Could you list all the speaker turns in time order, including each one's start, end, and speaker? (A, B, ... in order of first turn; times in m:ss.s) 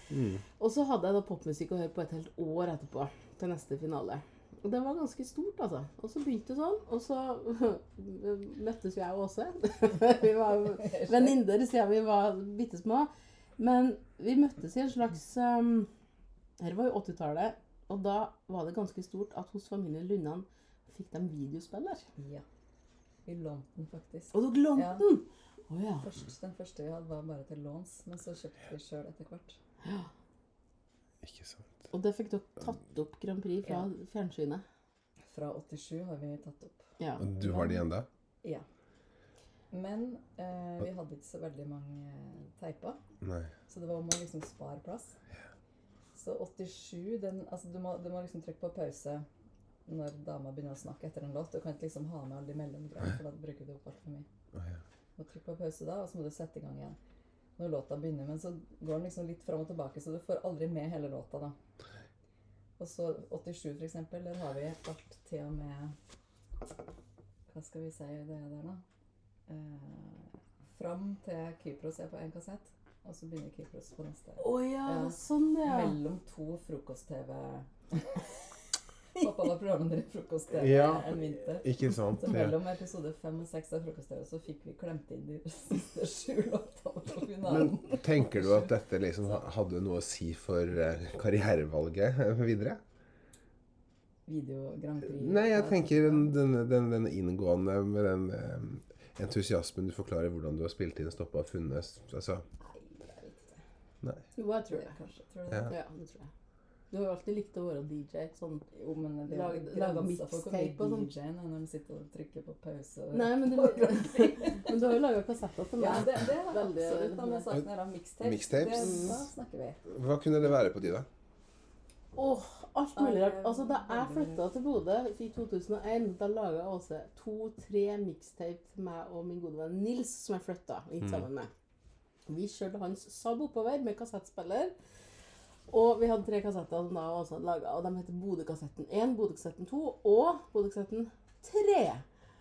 0:00.1-0:00.4 A
0:00.6-0:15.9 B
0:10.8-0:11.2 C
0:16.6-0:22.1 B
0:22.2-0:22.4 C
0:23.2-0:25.0 C
0:24.3-0:26.1 B
0:26.0-0:29.6 C
0:29.8-0:30.1 B
0:31.2-0:31.8 A
0:31.9-0:34.6 B
0:35.3-0:36.8 C
0:37.0-0:37.4 B
0:37.2-0:38.1 A
0:37.4-0:37.7 C
0:39.7-0:43.0 C
0:43.2-0:43.5 A
0:43.7-0:45.2 C
0:46.1-0:49.2 C
0:49.9-0:54.3 C
0:54.5-0:54.8 A
0:55.2-0:57.0 C
0:57.6-1:01.6 C
1:02.8-1:05.9 C
1:07.5-1:08.8 C
1:09.5-1:18.2 C
1:14.4-1:16.0 B
1:19.2-1:28.6 C
1:20.6-1:22.6 A
1:27.5-1:32.8 A
1:34.3-1:36.3 C
1:35.1-1:42.4 A
1:42.6-1:43.6 C
1:44.4-1:44.9 B
1:44.7-1:45.8 C
1:45.7-1:46.3 B
1:46.9-1:48.6 B
1:48.7-1:54.8 C
1:49.3-1:51.1 B
1:53.1-1:57.4 B
1:55.8-1:59.8 C
1:58.2-1:59.1 A
1:58.8-1:59.1 B
1:59.9-2:01.1 A
2:02.1-2:11.5 B
2:03.0-2:04.4 C
2:12.3-2:14.7 B
2:15.7-2:22.0 B